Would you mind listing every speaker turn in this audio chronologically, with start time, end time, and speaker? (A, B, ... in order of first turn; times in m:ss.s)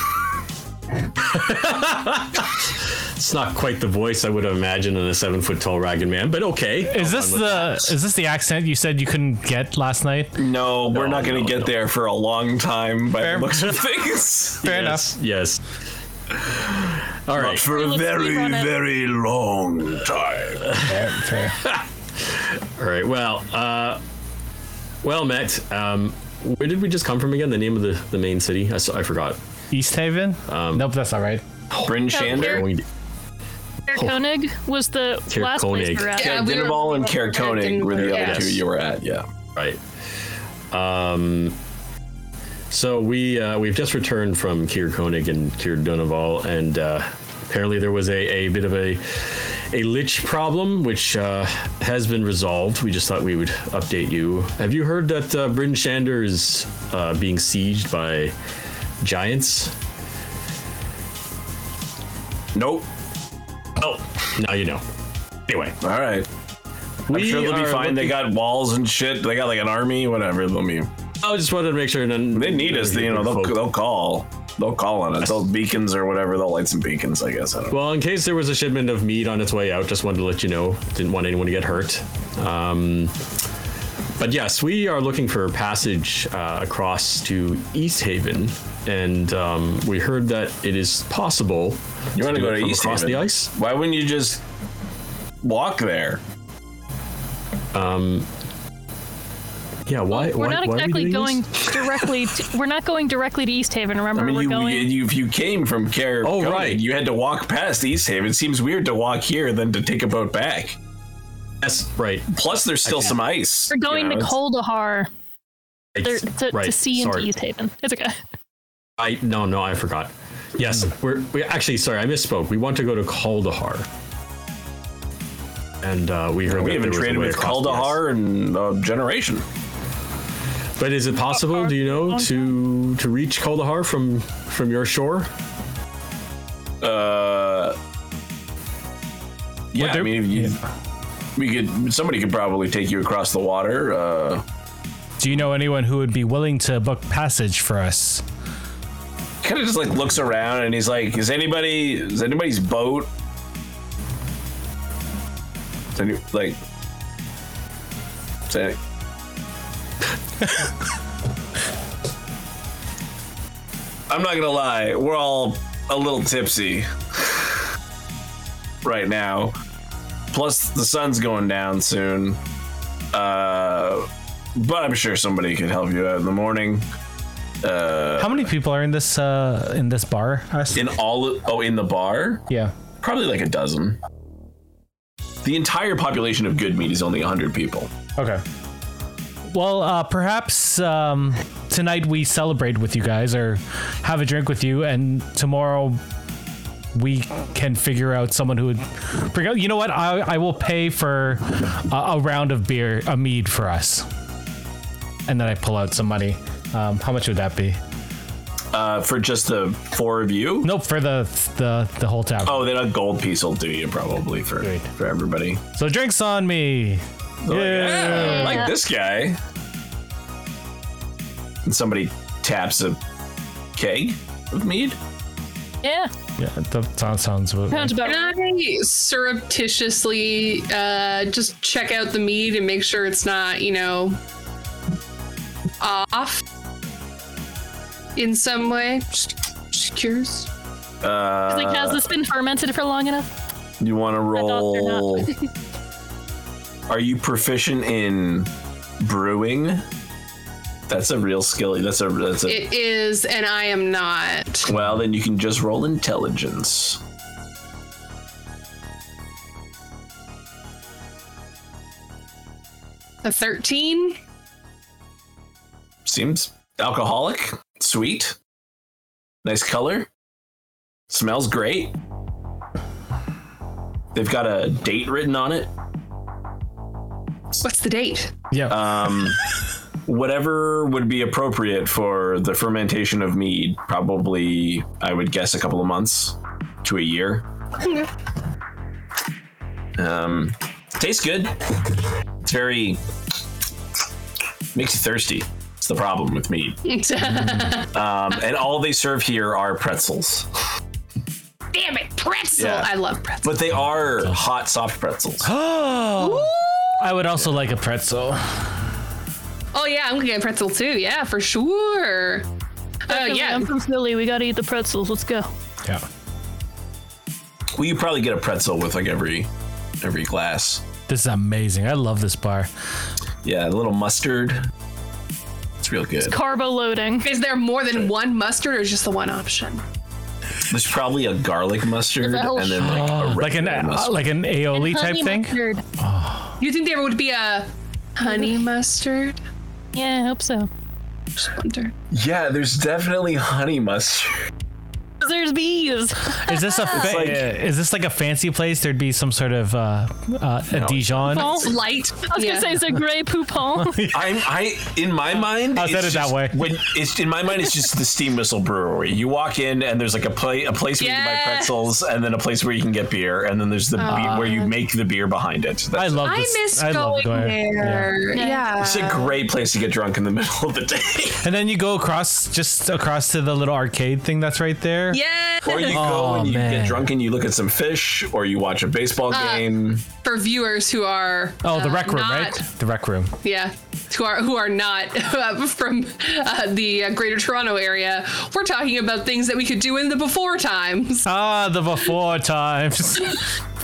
0:01.2-0:08.0 A
0:06.9-0:10.4 B
0:10.4-0:14.6 C
0:10.9-0:11.7 A
0:13.2-0:13.8 B
0:14.6-0:15.6 A
0:14.6-0:15.1 B
0:16.4-0:17.6 A
0:17.3-0:20.8 C
0:17.6-0:18.7 D
0:20.8-0:21.6 B
0:21.6-0:24.0 A
0:25.0-0:29.4 A
0:29.7-0:31.4 B
0:30.5-0:30.9 A
0:31.7-0:32.8 A
0:31.8-0:32.7 C
0:32.1-0:32.6 D
0:33.9-0:36.4 D
0:35.3-0:36.2 A
0:36.2-0:38.6 E
0:36.2-0:39.3 C
0:37.9-0:38.6 A
0:40.7-0:41.6 A
0:42.7-0:58.3 A
0:59.0-0:59.7 A
1:02.5-1:02.9 C
1:03.8-1:04.8 A
1:05.5-1:05.8 A
1:05.8-1:06.3 C
1:07.1-1:08.3 A
1:07.1-1:10.9 C
1:11.2-1:13.6 A
1:12.3-1:17.8 C
1:17.7-1:23.2 A
1:24.2-1:33.5 A
1:32.2-1:34.4 C
1:35.4-1:36.2 C
1:37.7-1:38.3 A
1:39.9-1:42.0 A
1:40.1-1:44.9 D
1:44.2-1:50.8 C
1:46.2-1:46.8 A
1:51.6-1:52.3 A
1:52.3-1:54.4 C
1:52.8-1:53.2 A
1:53.7-1:55.1 D
1:56.0-1:57.3 A
1:56.0-1:58.2 D
1:59.0-2:03.9 A
2:05.8-2:08.0 A
2:06.5-2:09.4 C
2:10.8-2:15.3 A
2:11.3-2:12.5 D
2:16.8-2:17.8 C
2:19.7-2:20.6 C
2:19.8-2:20.6 B
2:21.4-2:24.4 C
2:25.2-2:28.2 B
2:29.4-2:33.1 C
2:36.0-2:36.6 C
2:38.5-2:38.8 C
2:44.1-2:47.6 C
2:48.8-2:49.6 C
2:50.3-2:52.4 C
2:53.1-2:56.8 C
2:57.6-2:58.5 C
2:58.2-3:00.9 B
3:00.8-3:02.4 C
3:03.0-3:04.0 C
3:05.4-3:07.9 C
3:08.2-3:08.4 B
3:09.5-3:16.0 B
3:16.9-3:24.1 B
3:25.3-3:27.8 B
3:28.7-3:30.7 C
3:30.6-3:32.7 B
3:32.4-3:35.6 C
3:34.6-3:34.9 B
3:35.8-3:38.6 B
3:37.4-3:39.4 C
3:38.1-3:38.7 D
3:41.6-3:43.0 C
3:43.7-3:45.0 C
3:45.8-3:46.1 D
3:46.4-3:48.0 B
3:47.7-3:48.4 D
3:48.0-3:54.2 E
3:55.8-3:56.4 E
3:58.2-4:00.5 E
4:01.0-4:02.0 C
4:01.5-4:03.3 D
4:03.8-4:05.3 C
4:04.3-4:05.4 D
4:06.9-4:08.5 C
4:09.0-4:09.8 C
4:10.9-4:12.6 C
4:12.5-4:14.7 E
4:14.7-4:17.0 C
4:23.2-4:24.2 E
4:26.1-4:28.4 C
4:29.4-4:30.1 C
4:31.1-4:32.0 C
4:34.1-4:35.7 C
4:37.6-4:38.4 E
4:38.5-4:38.8 B
4:38.7-4:39.4 C
4:40.1-4:47.5 C
4:47.8-4:48.1 E
4:50.0-4:51.6 C
4:52.4-4:53.0 C
4:54.7-4:56.8 C
4:56.8-4:57.9 E
4:57.9-5:00.5 C
5:01.7-5:03.6 E
5:02.6-5:02.9 C
5:03.4-5:05.5 C
5:05.4-5:08.7 B
5:06.2-5:07.1 E
5:09.7-5:12.5 E
5:13.1-5:13.7 E
5:13.1-5:15.5 D
5:17.8-5:19.5 C
5:20.0-5:20.8 C
5:21.1-5:22.7 B
5:23.4-5:24.7 C
5:25.8-5:26.4 C
5:26.2-5:27.3 D
5:27.2-5:29.8 E
5:30.7-5:34.1 C
5:32.2-5:33.0 D
5:32.8-5:36.6 B
5:34.7-5:35.8 D
5:36.6-5:39.4 E
5:39.9-5:40.7 D
5:41.4-5:41.9 E
5:42.1-5:44.4 C
5:45.2-5:47.0 D
5:46.4-5:51.6 B
5:47.0-5:47.5 C
5:50.7-5:51.5 C
5:51.3-5:54.1 D
5:51.4-5:52.8 E
5:53.8-5:54.5 B
5:54.1-6:06.4 C
5:55.7-5:56.8 B
6:01.0-6:01.8 E
6:04.0-6:04.7 E
6:04.1-6:04.6 B
6:06.0-6:08.1 B
6:06.2-6:09.4 E
6:08.3-6:08.7 D
6:08.8-6:11.5 C
6:11.4-6:15.2 B
6:15.1-6:16.0 E
6:15.6-6:20.1 C
6:15.8-6:17.1 B
6:19.3-6:22.6 E
6:21.6-6:23.3 B
6:23.4-6:31.3 E
6:31.2-6:33.4 B